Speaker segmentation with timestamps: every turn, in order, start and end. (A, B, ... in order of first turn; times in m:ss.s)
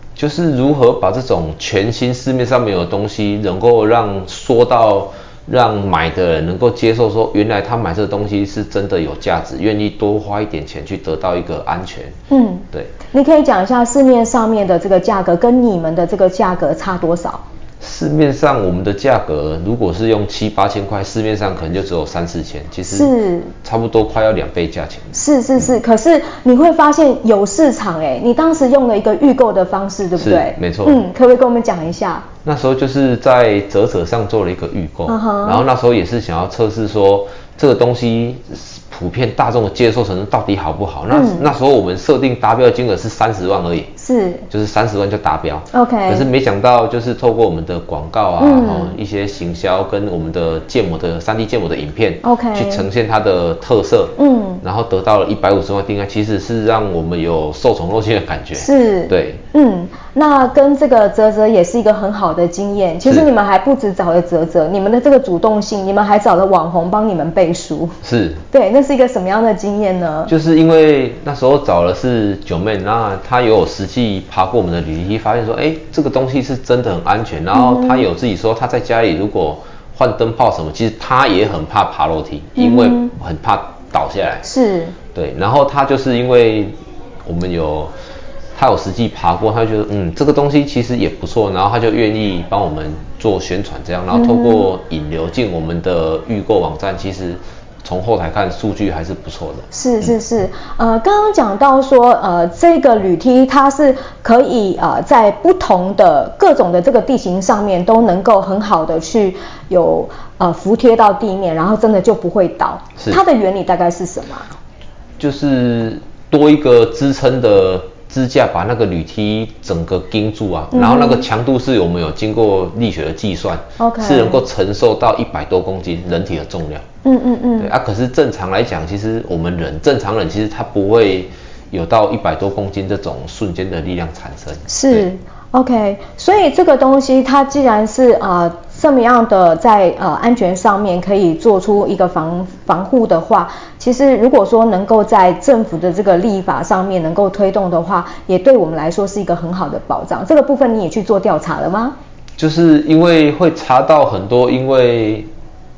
0:00.2-0:12.1 A
0:12.3-0:17.4 B
0:17.8-0:25.7 A
0:22.8-0:23.5 B
0:25.1-0:32.3 B
0:30.2-0:31.0 A
0:32.4-0:43.9 A
0:35.1-0:35.7 B
0:41.1-0:41.5 B
0:44.0-0:44.5 B
0:44.5-0:59.4 A
0:45.7-0:46.3 B
0:48.4-0:49.0 B
0:52.2-0:52.8 B
0:54.2-0:54.6 B
0:58.6-1:08.0 B
1:08.0-1:08.4 A
1:08.5-1:10.3 B
1:10.3-1:24.4 A
1:17.5-1:18.0 B
1:22.6-1:23.1 B
1:24.4-1:25.0 B
1:25.1-1:27.9 A
1:28.6-1:40.1 A
1:34.1-1:34.7 B
1:39.7-1:54.5 B
1:55.2-2:06.8 A
2:00.7-2:01.2 B
2:03.8-2:04.4 B
2:07.0-2:07.7 B
2:07.6-2:15.1 A
2:14.7-2:31.9 B
2:32.4-2:35.3 A